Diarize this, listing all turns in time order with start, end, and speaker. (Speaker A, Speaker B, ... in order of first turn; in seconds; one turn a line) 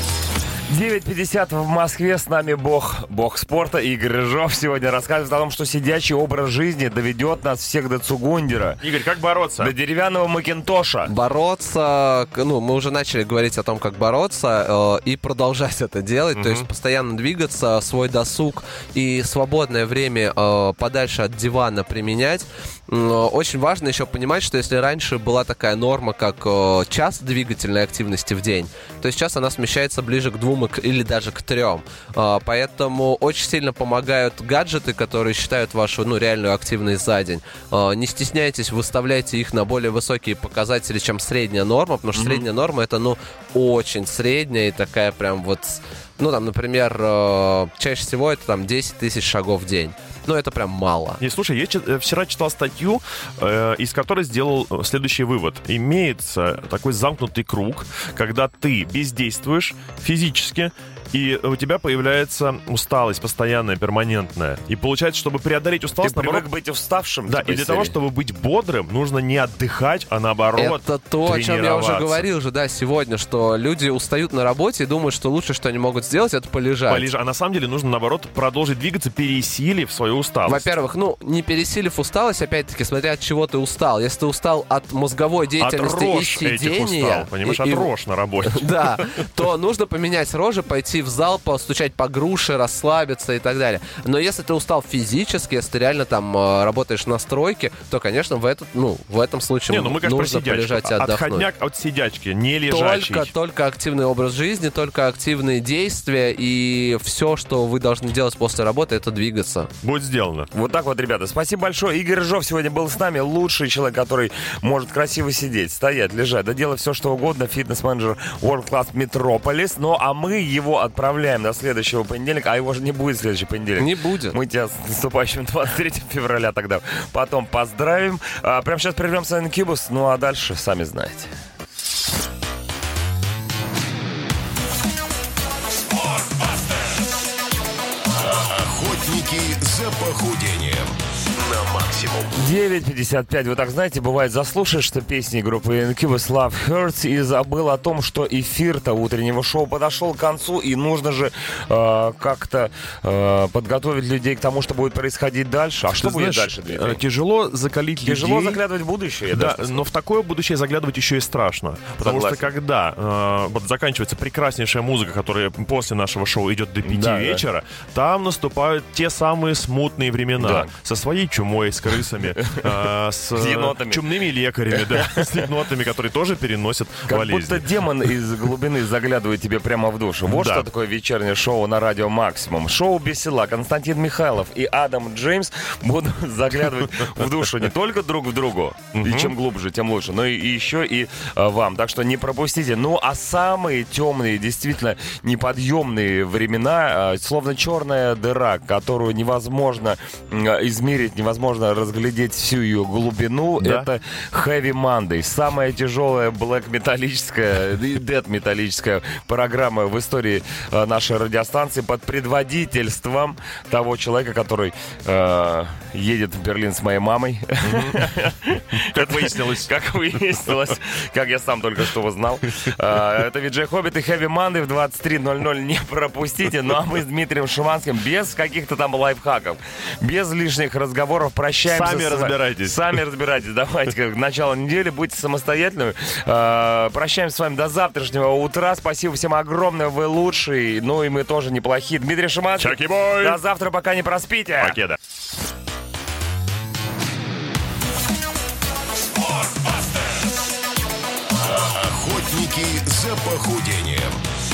Speaker A: 0.7-8.8
Speaker B: 8.8-9.7
Speaker A: 9.6-11.1
Speaker C: 11.1-51.2
Speaker B: 16.3-16.7
Speaker A: 42.1-42.4
Speaker B: 51.2-66.5
Speaker A: 66.0-67.9
Speaker B: 67.3-72.2
Speaker C: 70.5-77.1
Speaker B: 76.9-80.7
Speaker C: 80.5-87.9
Speaker B: 85.6-89.1
Speaker C: 88.4-101.5
Speaker B: 99.7-103.3
Speaker C: 102.7-109.7
Speaker B: 109.8-110.5
Speaker A: 110.5-131.3
Speaker C: 123.8-124.3
Speaker D: 139.4-140.8
Speaker A: 142.3-157.0
Speaker B: 155.9-158.6
Speaker A: 158.0-159.8
Speaker B: 159.3-177.7
Speaker A: 162.0-162.5
Speaker A: 166.8-167.4
Speaker A: 170.4-170.7
Speaker A: 172.3-174.0
Speaker A: 174.7-175.5
Speaker A: 177.1-244.7
Speaker B: 180.3-180.7
Speaker B: 188.9-189.3
Speaker B: 203.6-203.9
Speaker B: 217.6-218.0
Speaker B: 218.9-219.7
Speaker B: 231.6-232.9
Speaker B: 242.6-243.4
Speaker B: 244.6-245.0
Speaker D: 252.3-254.1